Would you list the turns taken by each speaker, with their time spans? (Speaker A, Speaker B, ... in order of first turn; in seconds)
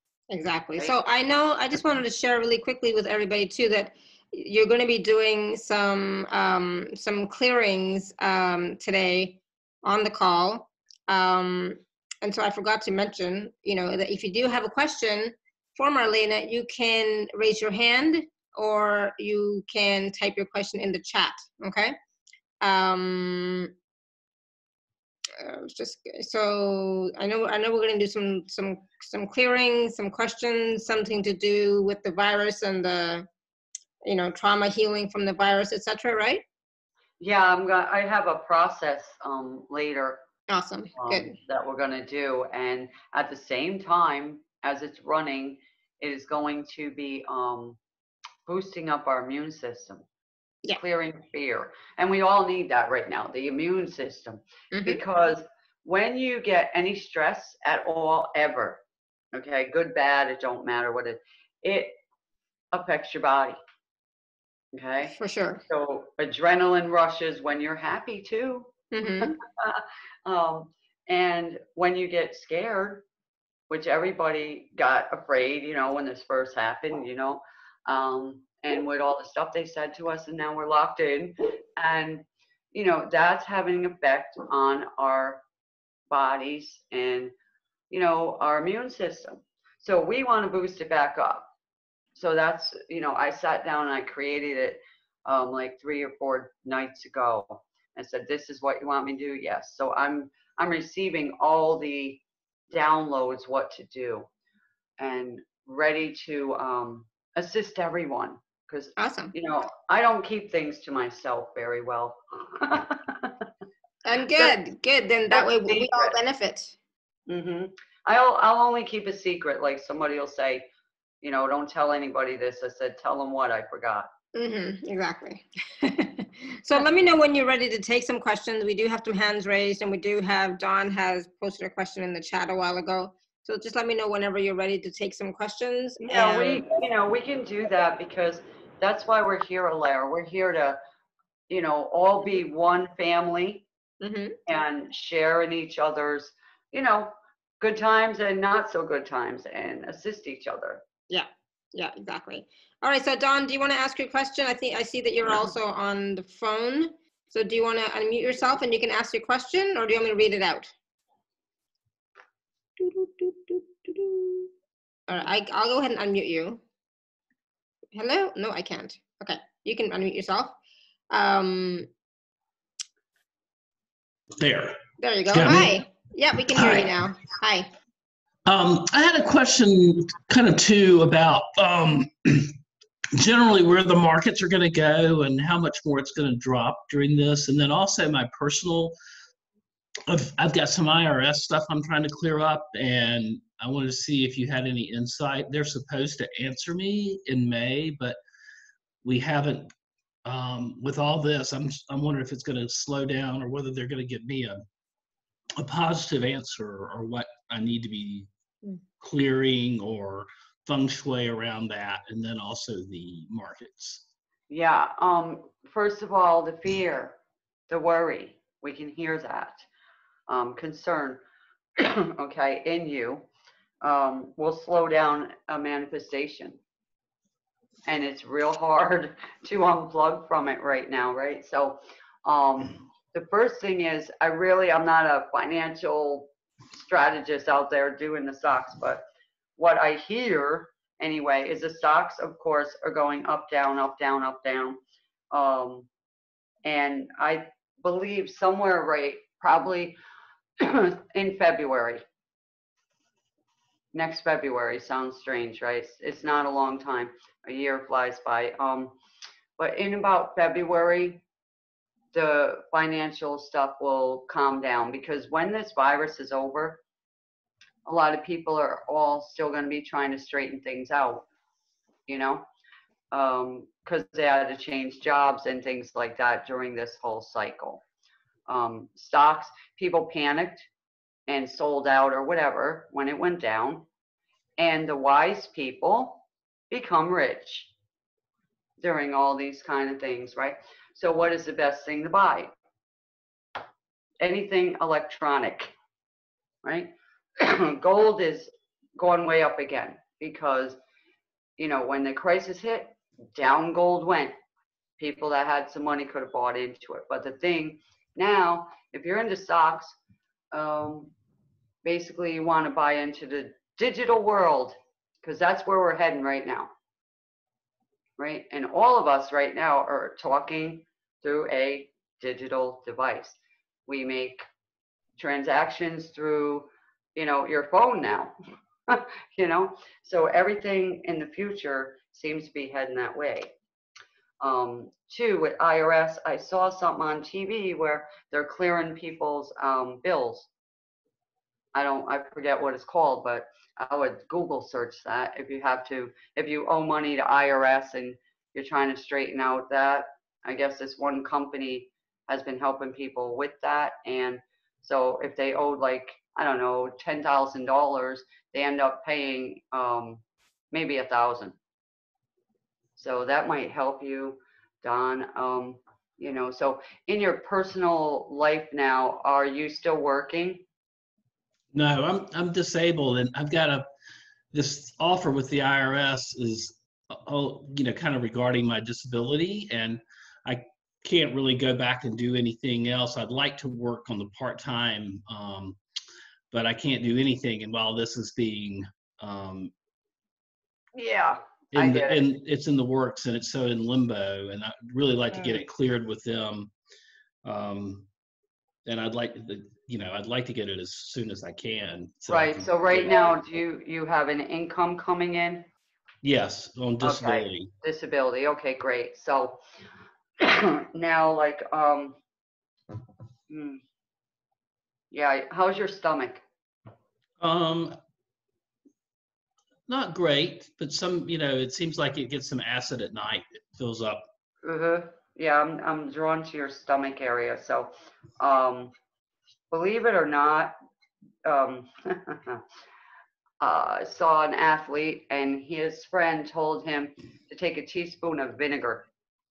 Speaker A: 0.3-21.9, 22.6-23.7, 25.4-33.3, 34.0-36.4, 40.5-41.4, 54.7-55.0, 65.1-65.6, 68.9-69.4, 109.0-109.3, 114.0-116.8, 124.3-136.6, 144.0-144.4, 151.1-160.7, 162.8-164.5, 165.1-166.6, 167.9-170.6, 171.1-171.9, 175.0-177.7
Speaker B: 37.2-40.2, 41.0-47.8, 48.5-50.0, 50.8-58.8, 59.3-62.0, 62.7-63.6, 64.7-65.2, 65.7-73.0, 73.7-85.4, 86.1-87.3, 87.9-91.5, 92.1-104.3, 105.0-113.5, 115.3-116.2, 117.3-120.7, 121.2-124.1, 136.0-140.8, 141.5-143.7, 144.5-150.8, 214.5-217.2, 217.7-219.7, 220.3-221.2, 221.8-223.2, 223.8-226.6, 227.8-239.0, 239.6-244.8, 245.3-245.9, 246.6-250.0, 250.6-252.0, 253.9-259.0, 259.6-261.2, 262.1-266.8, 267.8-271.3, 272.1-272.4, 273.1-277.8, 278.5-280.7, 281.3-283.9, 284.6-287.7, 288.8-292.5, 294.2-295.7, 296.6-300.8, 301.6-304.4, 305.0-310.0, 310.5-311.1, 311.8-316.7, 318.2-324.4, 325.2-328.4, 328.9-333.5, 334.4-340.5, 341.7-361.6, 362.9-370.6, 390.9-392.2, 395.3-395.6, 402.3-405.7, 407.0-409.6, 410.4-412.2, 413.5-413.8, 415.1-416.4, 424.6-428.9, 429.7-430.8, 431.4-432.6, 433.6-439.1
Speaker C: 174.4-175.8, 176.5-176.9, 178.4-182.5, 183.2-188.9, 190.1-198.2, 199.0-199.7, 200.2-204.6, 205.6-208.3, 209.0-214.1, 371.7-373.9, 374.5-385.8, 386.5-389.7, 391.7-396.7, 397.4-398.1, 398.9-403.2, 406.2-407.7, 417.4-417.9, 419.9-424.3